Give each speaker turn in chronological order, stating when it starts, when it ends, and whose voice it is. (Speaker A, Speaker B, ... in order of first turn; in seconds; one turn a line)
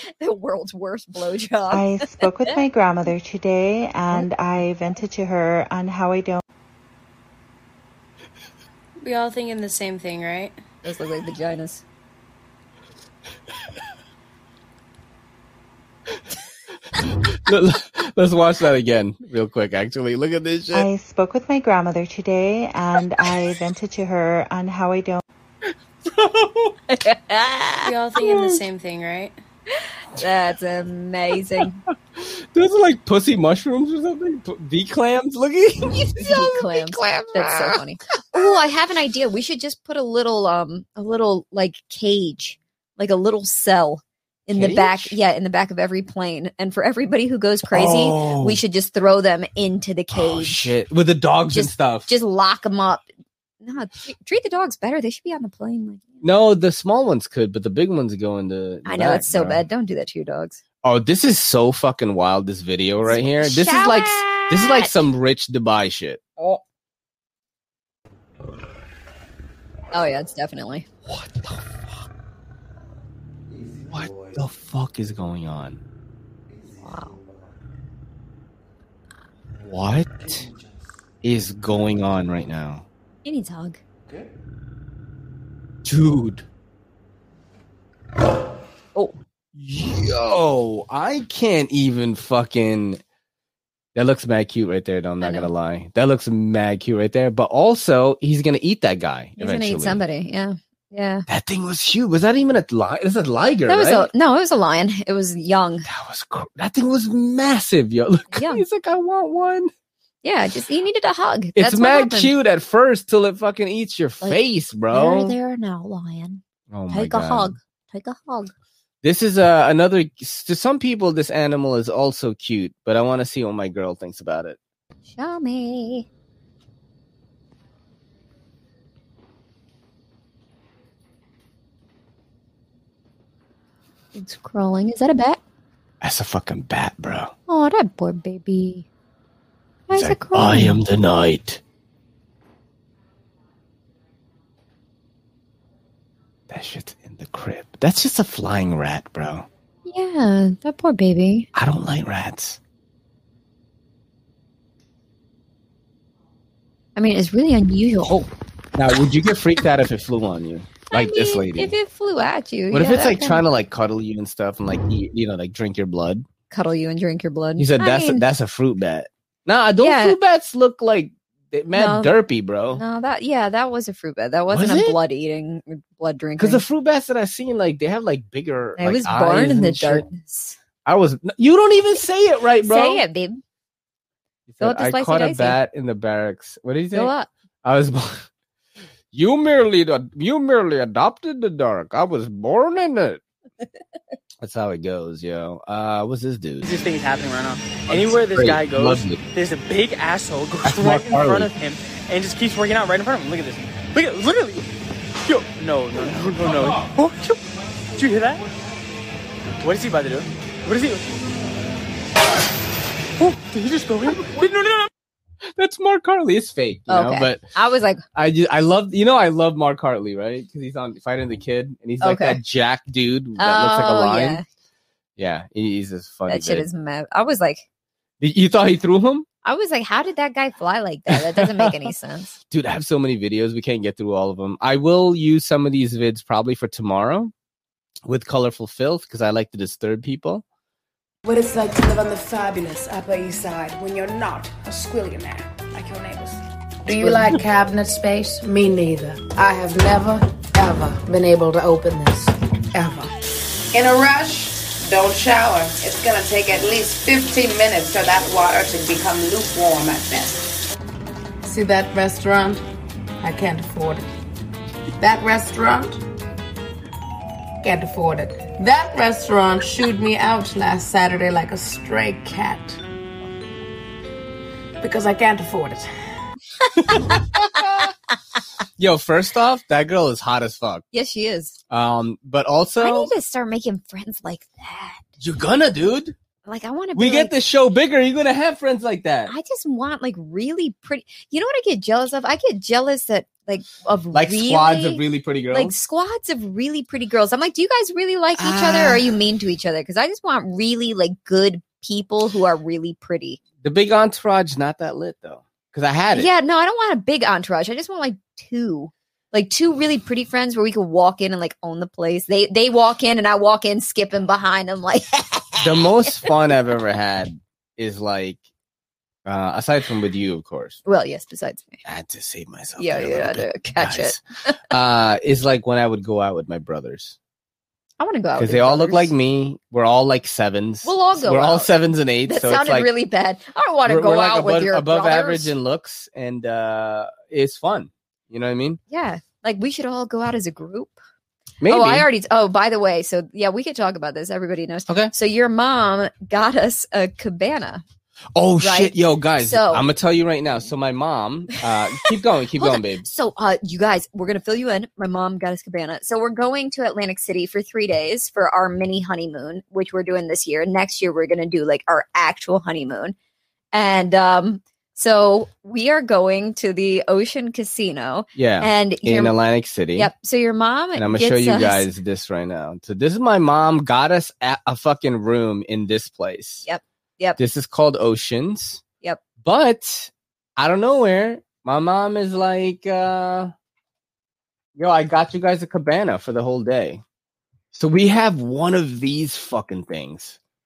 Speaker A: 0.2-2.6
Speaker B: 1.7-6.4
Speaker C: 9.0-10.6
Speaker A: 10.8-11.8
Speaker D: 17.4-20.9
Speaker B: 20.7-25.2
Speaker D: 26.0-26.7
Speaker A: 26.9-27.9
Speaker C: 27.8-29.4
Speaker D: 28.2-28.6
Speaker A: 30.1-31.8
Speaker D: 32.2-37.8
Speaker A: 36.2-50.7
Speaker D: 44.5-45.2
Speaker D: 47.7-48.6
Speaker D: 50.1-52.1
Speaker A: 51.5-53.1
Speaker A: 53.6-56.2
Speaker D: 56.2-59.6
Speaker A: 58.9-60.6
Speaker D: 60.8-66.2
Speaker A: 63.1-65.0
Speaker A: 69.9-70.9
Speaker D: 71.1-71.7
Speaker D: 73.9-75.8
Speaker A: 76.8-77.2
Speaker D: 79.6-80.5
Speaker D: 81.2-82.9
Speaker A: 83.2-83.8
Speaker D: 85.8-86.5
Speaker D: 89.5-93.0
Speaker D: 94.0-100.0
Speaker A: 95.2-95.5
Speaker A: 99.4-101.3
Speaker D: 101.3-104.1
Speaker A: 103.7-105.9
Speaker D: 105.8-109.7
Speaker A: 108.3-108.6
Speaker A: 110.2-112.3
Speaker D: 111.6-115.4
Speaker A: 114.2-118.5
Speaker D: 116.7-117.5
Speaker D: 119.0-124.6
Speaker A: 125.1-126.1
Speaker A: 134.2-135.4
Speaker D: 136.0-137.3
Speaker A: 137.5-138.9
Speaker A: 139.9-140.8
Speaker D: 139.9-141.6
Speaker D: 146.5-149.5
Speaker A: 149.9-151.5
Speaker D: 151.5-152.6
Speaker A: 157.0-158.3
Speaker D: 158.8-161.7
Speaker A: 160.9-163.4
Speaker D: 162.7-166.2
Speaker A: 166.5-168.2
Speaker D: 167.6-172.8
Speaker A: 169.8-170.2
Speaker A: 171.7-172.1
Speaker A: 172.7-176.6
Speaker D: 174.5-175.0
Speaker D: 176.4-180.1
Speaker A: 178.8-180.6
Speaker D: 180.8-183.1
Speaker A: 182.6-183.4
Speaker D: 184.5-187.1
Speaker A: 184.6-185.6
Speaker A: 186.9-187.3
Speaker D: 187.6-188.3
Speaker D: 189.1-193.2
Speaker D: 194.4-196.7
Speaker E: 196.6-204.7
Speaker D: 197.9-199.2
Speaker D: 200.7-201.5
Speaker E: 205.2-207.4
Speaker E: 208.0-208.4
Speaker E: 209.6-211.1
Speaker E: 213.2-214.9
Speaker D: 215.6-217.4
Speaker A: 216.9-218.0
Speaker D: 218.2-224.4
Speaker A: 222.0-222.4
Speaker A: 223.4-224.4
Speaker D: 225.2-226.7
Speaker A: 226.3-227.6
Speaker D: 228.2-229.3
Speaker A: 229.4-232.4
Speaker D: 231.1-231.9
Speaker D: 232.5-237.3
Speaker D: 238.1-240.4
Speaker F: 241.2-253.1
Speaker F: 253.7-260.5
Speaker F: 261.4-262.6
Speaker F: 263.2-264.1
Speaker F: 265.0-266.0
Speaker F: 267.6-272.8
Speaker F: 274.8-275.9
Speaker D: 276.9-277.9
Speaker D: 278.8-280.9
Speaker A: 280.9-281.6
Speaker D: 281.7-283.1
Speaker A: 282.8-285.1
Speaker D: 285.2-286.2
Speaker A: 286.4-287.4
Speaker D: 286.9-289.3
Speaker A: 289.3-303.4
Speaker D: 294.1-295.8
Speaker D: 298.4-299.1
Speaker D: 303.6-306.3
Speaker A: 306.1-315.9
Speaker D: 315.6-318.4
Speaker D: 319.3-320.8
Speaker A: 320.9-321.8
Speaker D: 321.9-327.2
Speaker A: 322.8-324.6
Speaker A: 328.0-329.1
Speaker D: 328.4-332.9
Speaker A: 330.8-331.7
Speaker A: 332.3-335.5
Speaker D: 333.9-338.8
Speaker A: 338.9-341.0
Speaker D: 341.6-342.1
Speaker A: 341.7-347.8
Speaker D: 348.4-353.1
Speaker A: 348.6-349.9
Speaker A: 352.6-363.1
Speaker A: 363.7-369.4
Speaker D: 368.4-370.1
Speaker A: 369.9-371.9
Speaker D: 370.9-376.6
Speaker A: 376.6-377.4
Speaker D: 377.4-378.8
Speaker D: 379.4-383.5
Speaker D: 384.8-387.0
Speaker D: 387.7-390.4